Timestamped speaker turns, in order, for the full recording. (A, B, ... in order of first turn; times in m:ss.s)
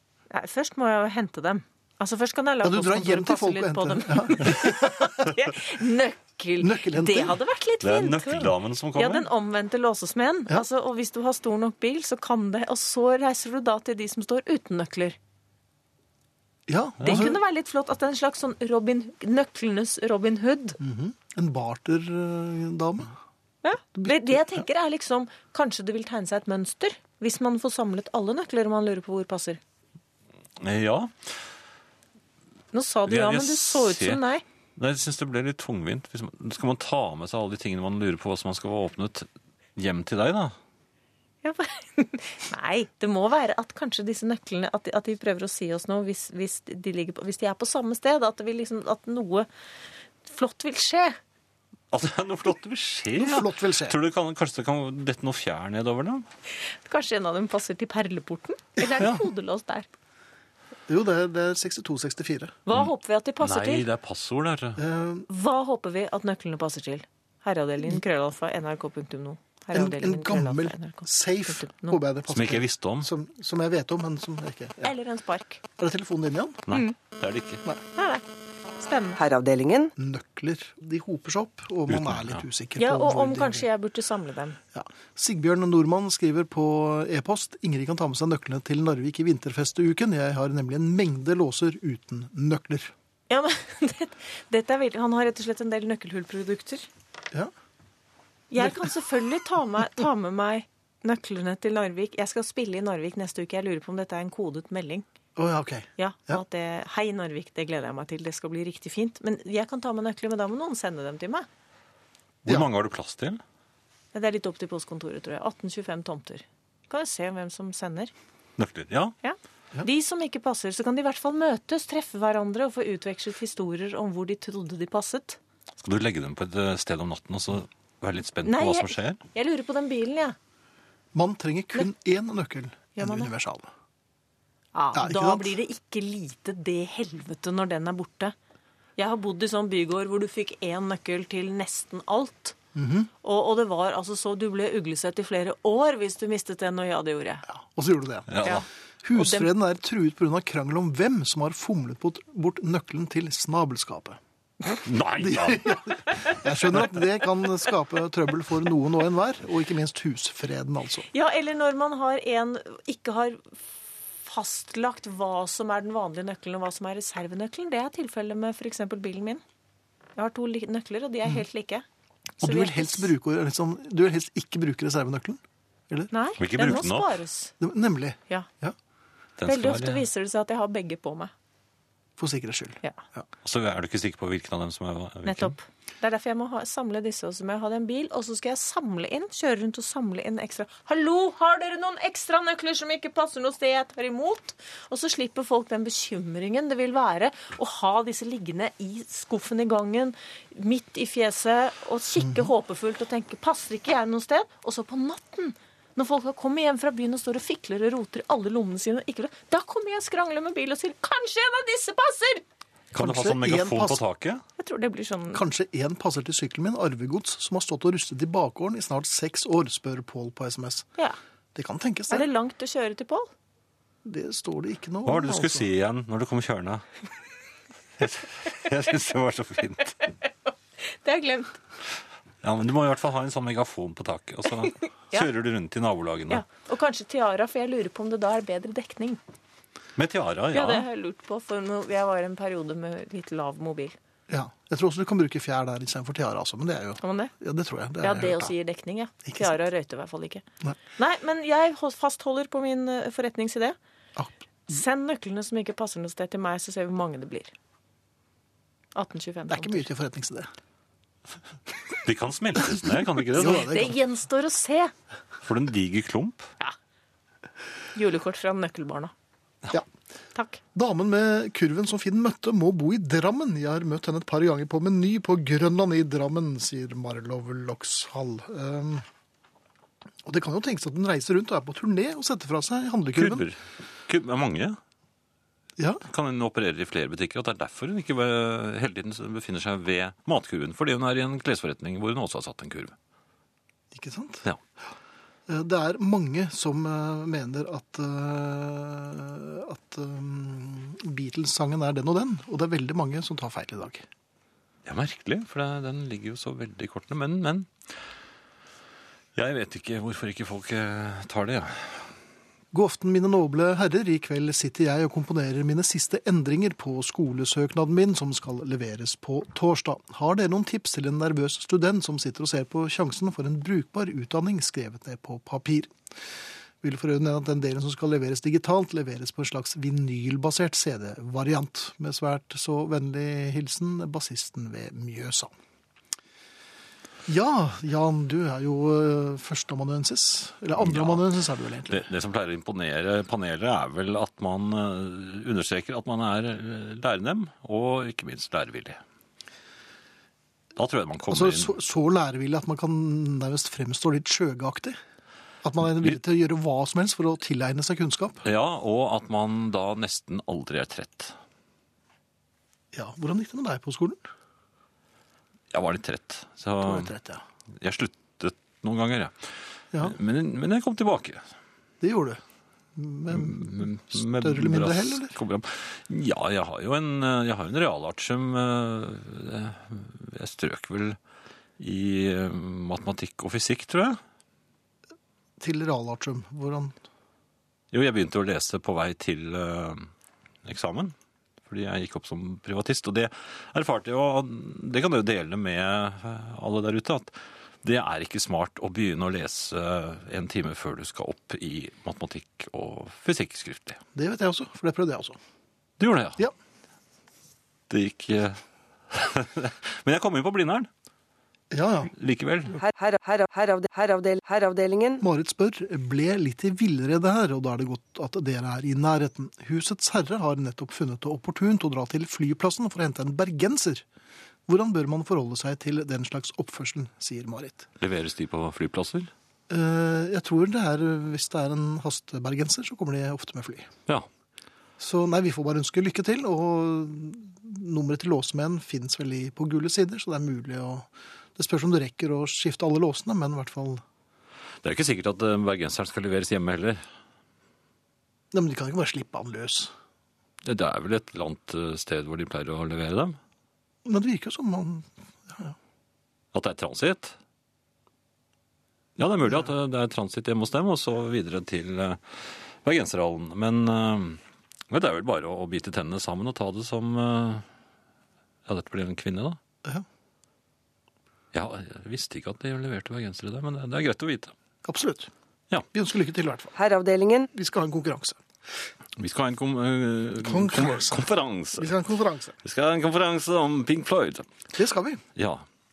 0:00.3-0:15.2 A
0:02.6-0:05.2 B
0:06.6-0:07.4 B
0:07.8-0:09.3 C
0:16.7-0:17.4 B
0:17.0-0:20.8 A
0:20.8-0:23.1 B
0:23.6-0:29.6 A
0:24.0-0:24.6 B
0:30.6-0:31.1 C
0:32.7-0:34.4 A
0:33.0-0:34.2 C
0:34.8-0:40.5 C
0:41.4-0:49.5 A
0:50.2-0:51.2 A
0:51.9-0:56.2 C
0:53.2-0:54.0 B
0:56.6-0:59.9 A
1:00.9-1:02.6 B
1:02.6-1:03.8 A
1:02.7-1:04.8 C
1:04.8-1:05.3 B
1:05.3-1:12.0 A
1:09.7-1:14.9 B
1:12.3-1:13.1 C
1:14.8-1:15.6 A
1:15.8-1:16.7 B
1:16.7-1:17.6 C
1:18.0-1:18.2 A
1:18.8-1:19.2 A
1:19.2-1:19.9 D
1:20.0-1:23.7 B
1:21.9-1:22.4 C
1:22.8-1:24.6 A
1:24.7-1:32.9 B
1:33.3-1:36.9 A
1:38.5-1:45.0 A
1:38.6-1:38.9 B
1:45.4-1:46.4 B
1:46.0-1:51.5 A
1:52.4-1:53.4 C
1:54.1-1:58.1 A
1:58.6-1:59.1 C
1:59.2-2:05.4 A
2:05.8-2:09.2 C
2:08.4-2:10.4 A
2:11.1-2:13.7 B
2:13.0-2:13.3 A
2:14.7-2:18.3 A
2:14.9-2:15.6 B
2:19.0-2:22.6 A
2:22.7-2:23.1 B
2:23.2-2:27.4 A
2:27.5-2:28.5 B
2:28.3-2:28.6 C
2:28.4-2:29.5 A
2:29.0-2:34.2 B
2:34.8-2:36.2 C
2:35.2-2:41.0 B
2:41.1-2:43.6 A
2:44.2-2:49.4 A
2:50.2-2:51.8 A
2:52.4-2:56.1 B
2:52.4-2:53.1 A
2:56.1-2:57.5 A
2:56.4-2:57.2 C
2:57.6-2:58.8 B
2:59.4-3:00.0 C
2:59.4-3:01.3 A
3:02.2-3:03.3 B
3:03.4-3:05.5 C
3:05.2-3:32.4 A
3:22.2-3:22.5 B
3:32.9-3:34.4 C
3:32.9-3:34.0 B
3:34.6-3:35.4 A
3:35.3-3:40.9 B
3:41.5-3:42.3 B
3:42.1-3:43.3 A
3:44.0-3:45.7 B
3:45.0-3:46.8 C
3:48.0-3:50.0 C
3:50.8-3:51.6 A
3:52.4-3:56.4 C
3:56.3-3:59.2 A
4:00.0-4:00.8 C
4:00.5-4:04.0 A
4:04.3-4:08.5 B
4:07.0-4:07.3 A
4:08.0-4:10.4 A
4:09.3-4:09.6 B
4:11.0-4:13.8 A
4:14.7-4:17.5 A
4:18.9-4:19.8 A
4:19.5-4:20.5 B
4:22.0-4:23.9 C
4:23.3-4:24.0 B
4:23.4-4:24.9 A
4:25.4-4:26.5 C
4:27.9-4:29.1 A
4:30.3-4:30.6 A
4:30.7-4:39.0 B
4:40.2-4:43.4 B
4:43.2-4:44.8 C
4:45.8-4:46.0 B
4:46.1-4:52.9 C
4:53.9-4:54.4 B
4:55.5-5:04.0 B
5:04.8-5:07.7 C
5:09.4-5:12.1 C
5:12.7-5:25.9 B
5:26.8-5:35.5 B
5:37.3-5:42.1 B
5:40.8-5:41.2 C
5:41.9-5:49.0 C
5:50.8-5:51.8 C
5:51.3-5:55.0 B
5:55.6-5:58.4 B
5:58.4-6:01.3 C
6:02.9-6:04.2 B
6:05.7-6:07.1 C
6:06.8-6:07.4 B
6:07.8-6:09.3 C
6:10.0-6:11.4 C
6:12.0-6:12.4 B
6:13.0-6:15.3 B
6:13.3-6:21.2 C
6:21.8-6:24.2 C
6:25.6-6:26.9 B
6:27.9-6:30.1 C
6:30.6-6:31.1 C
6:31.6-6:44.0 C
6:44.1-6:45.4 B
6:46.0-6:46.4 C
6:47.9-6:50.9 C
6:51.7-6:52.1 B
6:52.2-6:52.8 C
6:52.8-6:55.2 D
6:55.2-7:04.0 B
7:04.7-7:07.9 B
7:08.0-7:09.3 C
7:09.7-7:13.9 B
7:15.0-7:24.0 B
7:24.8-7:27.0 C
7:28.5-7:29.9 B
7:30.6-7:33.4 C
7:34.0-7:35.8 B
7:36.5-7:37.4 C
7:39.2-7:47.6 C
7:39.4-7:39.7 B
7:48.7-7:49.6 C
7:51.5-7:54.5 C
7:54.8-7:55.3 B
7:55.9-7:56.7 B
7:56.7-7:57.5 D
7:57.5-7:58.4 B
7:59.2-8:01.9 C
8:00.4-8:02.6 B
8:02.6-8:04.5 C
8:04.7-8:05.2 B
8:05.4-8:05.6 C